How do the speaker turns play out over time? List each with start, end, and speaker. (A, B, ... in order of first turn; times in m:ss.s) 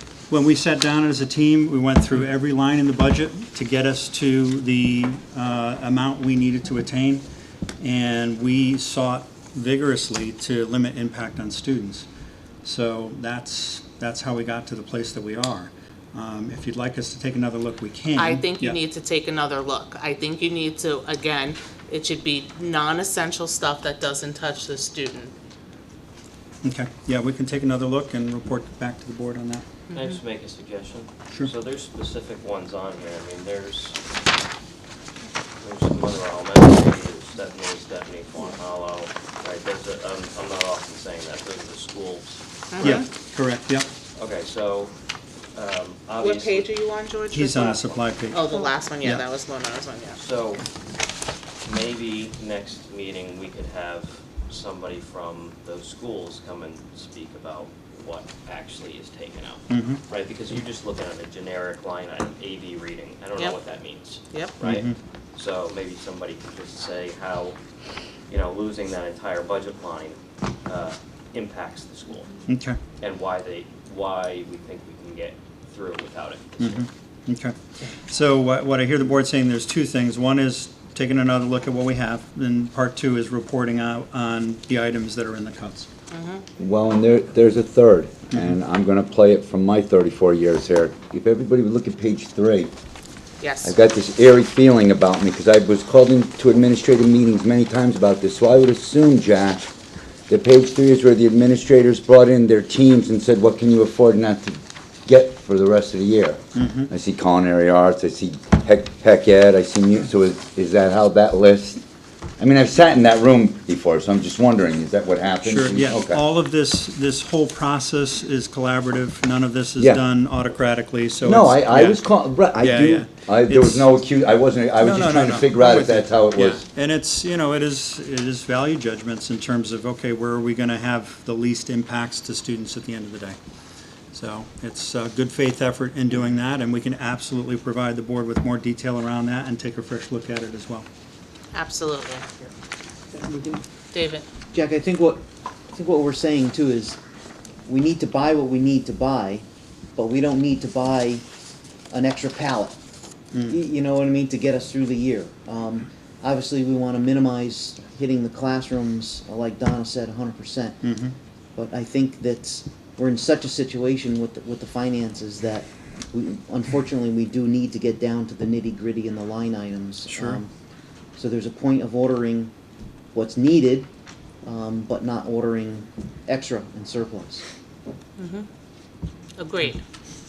0:00.3-0:07.2 A
0:07.8-0:12.1 A
0:12.6-0:18.8 A
0:18.1-0:25.3 B
0:26.6-0:29.7 A
0:29.9-0:34.0 C
0:35.6-0:43.0 C
0:42.7-0:43.0 B
0:42.8-0:43.9 A
0:44.2-0:44.9 C
0:45.5-0:46.7 C
0:46.2-0:50.2 B
0:47.3-0:48.4 A
0:50.2-0:50.6 C
0:51.6-1:07.6 C
0:59.7-1:00.0 A
1:04.3-1:04.6 B
1:04.6-1:05.0 A
1:08.3-1:12.3 C
1:12.5-1:12.8 A
1:13.0-1:16.9 C
1:16.6-1:17.5 A
1:18.0-1:25.9 A
1:26.1-1:26.4 B
1:26.6-1:32.7 D
1:33.4-1:33.7 B
1:33.6-1:39.7 D
1:40.3-1:51.8 D
1:46.5-1:46.9 A
1:52.4-1:56.2 D
1:55.4-2:02.0 A
1:59.8-2:00.0 D
2:01.2-2:06.6 D
2:02.5-2:03.9 A
2:04.8-2:13.4 A
2:14.1-2:20.9 A
2:21.5-2:22.5 B
2:23.1-2:23.6 E
2:23.9-2:24.2 B
2:24.5-2:25.2 E
2:25.7-2:27.0 E
2:27.7-2:29.4 E
2:30.0-2:31.2 E
2:31.9-2:32.8 E
2:33.3-2:33.6 A
2:33.5-2:40.8 E
2:40.8-2:41.2 A
2:41.6-2:50.5 E
2:50.1-2:50.4 A
2:51.2-2:52.5 E
2:53.1-2:53.9 E
2:54.4-2:57.4 E
2:58.2-2:58.5 B
2:59.4-2:59.8 B